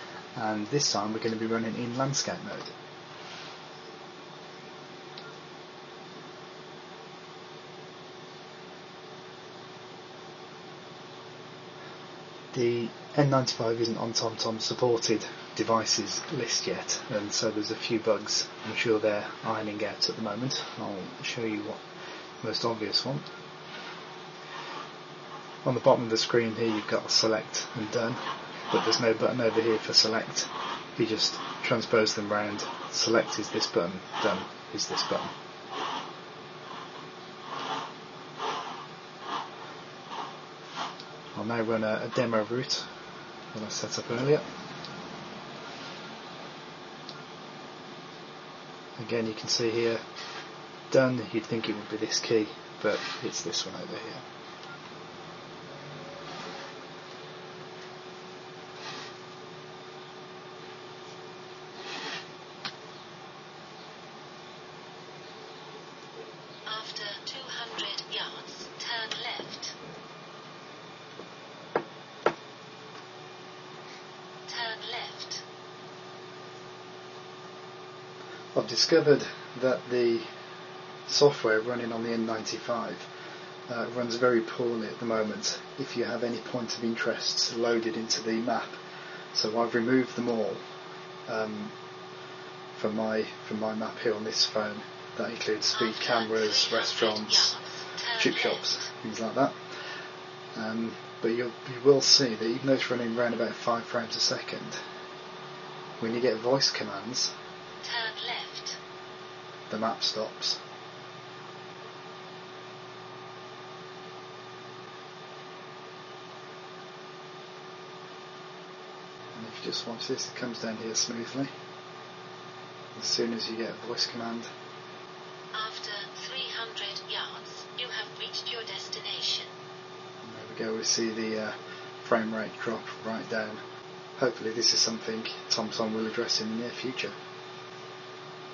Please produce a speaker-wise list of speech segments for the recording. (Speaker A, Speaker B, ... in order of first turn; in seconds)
Speaker A: 0.4-2.7, 12.5-21.8, 22.4-23.3, 25.6-35.3, 41.4-42.9, 43.5-44.5, 49.0-50.0, 50.9-54.3, 78.5-80.3, 81.1-83.1, 83.7-88.8, 89.3-90.6, 91.3-91.8, 92.8-97.5, 98.2-99.6, 100.5-104.8, 106.0-107.3, 109.7-110.6, 119.3-121.5, 123.0-124.5, 130.2-133.6, 134.2-137.2
Speaker B: 66.7-69.7, 74.5-75.4, 95.7-98.7, 107.8-108.8, 125.5-129.5